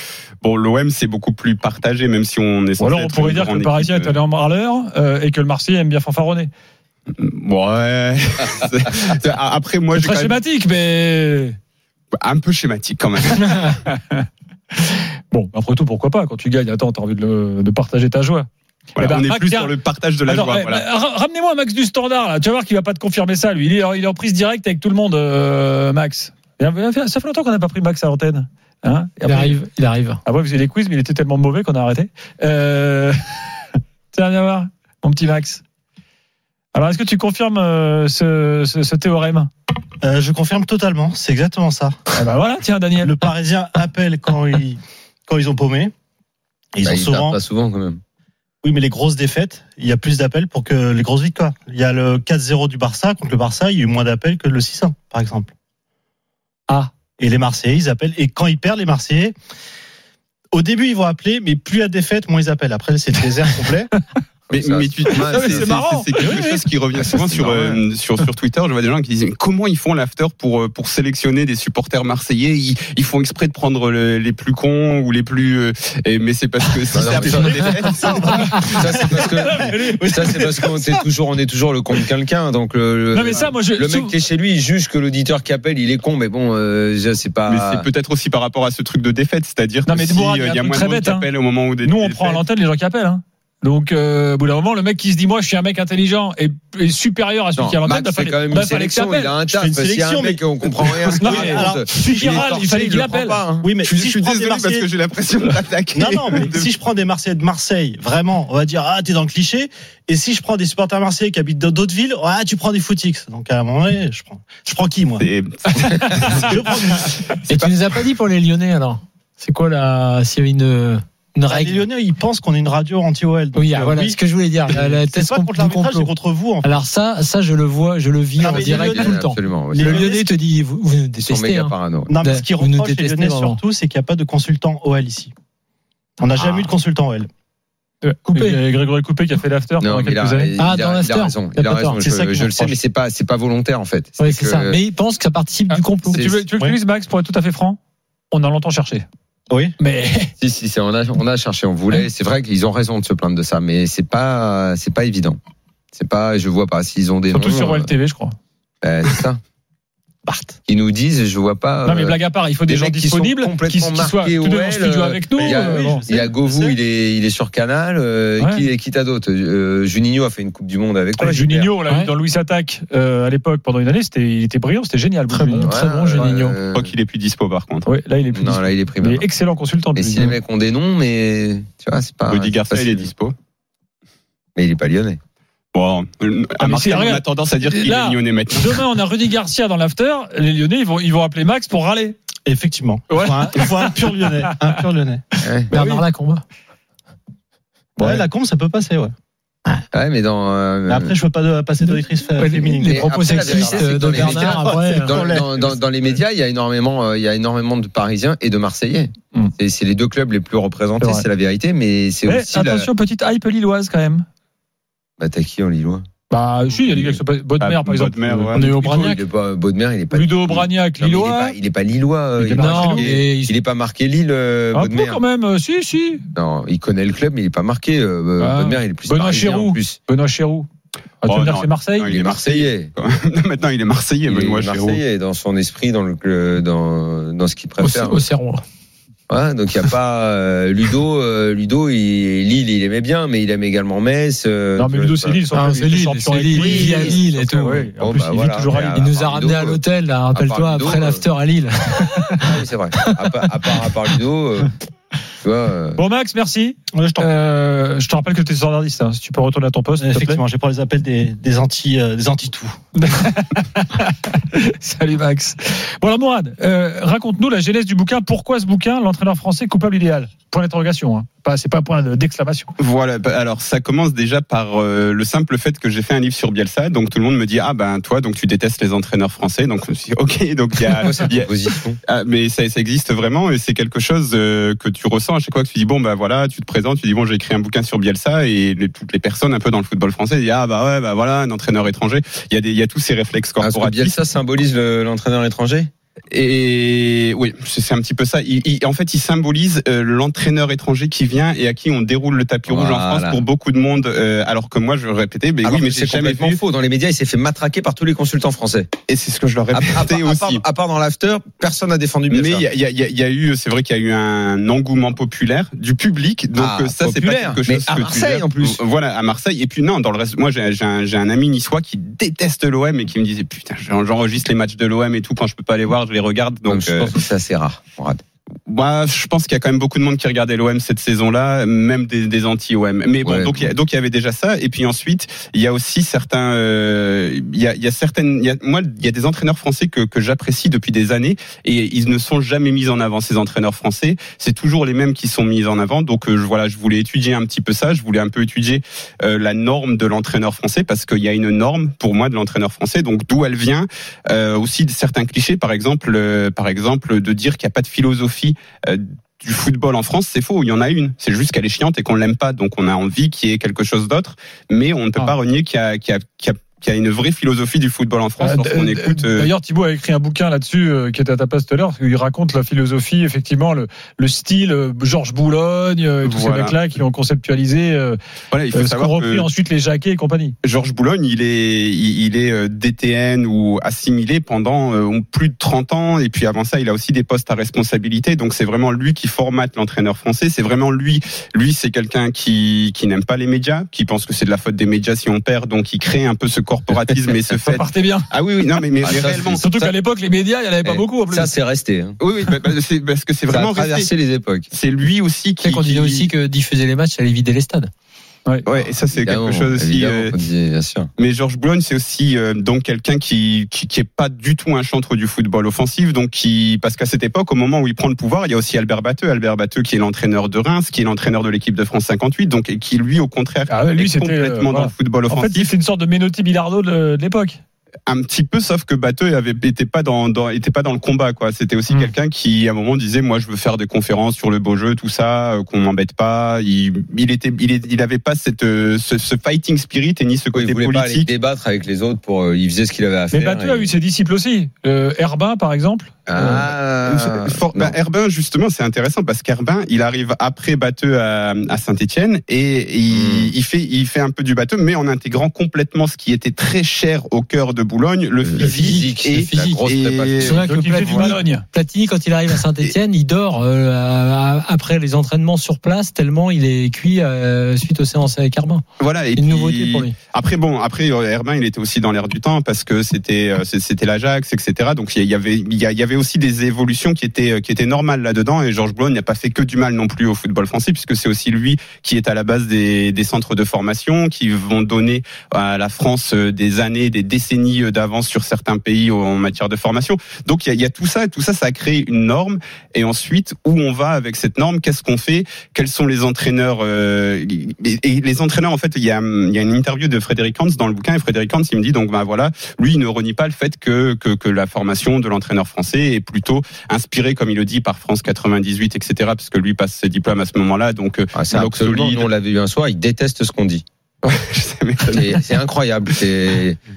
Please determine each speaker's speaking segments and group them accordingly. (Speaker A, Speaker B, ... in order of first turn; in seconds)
Speaker A: 0.4-4.2, 7.2-10.4, 12.1-13.8, 18.9-20.9, 64.5-78.7, 87.5-92.4, 103.8-106.7, 115.2-116.7, 117.5-118.0, 176.7-177.9, 182.3-183.3, 185.7-188.8, 217.6-218.6, 231.2-235.0, 272.8-281.5, 282.0-294.1, 296.3-306.6, 309.1-310.6, 312.3-327.1, 328.7-369.5, 376.2-376.8, 378.5-379.5, 380.6-399.9, 402.2-404.1, 404.7-406.3, 408.6-410.3, 411.2-425.7, 428.1-441.3, 447.0-461.3, 469.0-512.3, 514.2-515.5
Speaker B: 2.8-6.5, 9.9-11.6, 13.8-14.2, 15.3-18.5, 19.0-19.7, 20.2-29.6, 30.2-33.1, 34.1-35.6, 36.7-39.5, 42.1-43.2, 56.7-56.9, 65.3-66.6, 78.0-80.2, 83.1-84.1, 89.8-91.3, 91.8-99.3, 101.1-103.4, 138.0-140.5, 145.7-147.8, 148.3-149.1, 149.8-150.3, 157.3-158.3, 160.2-160.5, 161.8-166.0, 168.4-168.7, 171.2-176.5, 177.8-180.3, 186.6-192.2, 193.1-194.0, 211.0-211.2, 212.2-214.2, 216.3-219.1, 220.1-221.6, 222.4-223.1, 224.7-226.2, 228.4-230.7, 231.2-232.1, 244.8-249.1, 255.9-260.4, 262.9-272.7, 368.4-378.2, 378.7-380.6, 397.6-398.3, 399.6-401.5, 423.7-427.6, 443.3-446.7, 460.7-461.6
Speaker C: 29.2-30.2, 117.5-121.9, 123.5-126.1, 126.6-133.6, 138.2-138.6, 140.6-142.0, 144.2-146.2, 171.8-172.1, 175.3-176.4, 195.7-196.4, 201.8-205.2, 218.5-219.2, 222.5-223.5, 237.8-238.6, 245.5-247.9, 248.9-254.1, 405.6-407.9, 458.6-468.8, 469.3-470.1
Speaker D: 40.0-42.0, 43.0-45.9, 46.7-47.4, 48.6-55.5, 57.2-59.3, 60.5-63.9, 79.2-80.6, 99.5-102.9, 103.6-104.9, 105.9-115.2, 115.8-117.1, 121.5-126.8, 128.4-129.2, 129.7-130.3, 132.1-135.3, 136.2-137.3, 142.0-142.8, 149.5-149.7, 165.4-166.8, 192.4-195.2, 198.0-199.1, 200.9-205.7, 256.9-257.3, 260.0-262.8
Speaker E: 46.8-48.0, 64.5-66.0, 67.2-67.8, 76.9-87.9, 97.5-103.7, 128.5-130.1, 131.2-132.1, 136.4-136.7, 139.8-144.8, 146.1-146.4, 150.4-155.4, 155.9-157.9, 158.8-159.4, 160.7-171.7, 175.6-176.9, 178.3-179.3, 179.9-183.1, 184.6-185.2, 195.4-195.7, 198.0-198.2, 199.9-201.1, 202.8-212.9, 215.2-216.1, 216.8-217.2, 218.6-225.2, 226.3-230.0, 232.1-232.9, 234.3-238.2, 239.3-245.4, 246.5-251.2, 252.4-254.7, 255.4-256.0, 281.0-282.0, 293.6-295.9, 302.7-303.4, 305.6-308.9, 309.7-312.7, 316.6-318.8, 326.6-328.2, 333.2-333.7, 399.0-399.6, 400.8-402.2, 403.5-404.7, 408.8-411.1, 440.5-443.9, 446.3-447.9, 453.1-453.5, 458.4-460.7, 511.3-513.8, 515.1-516.8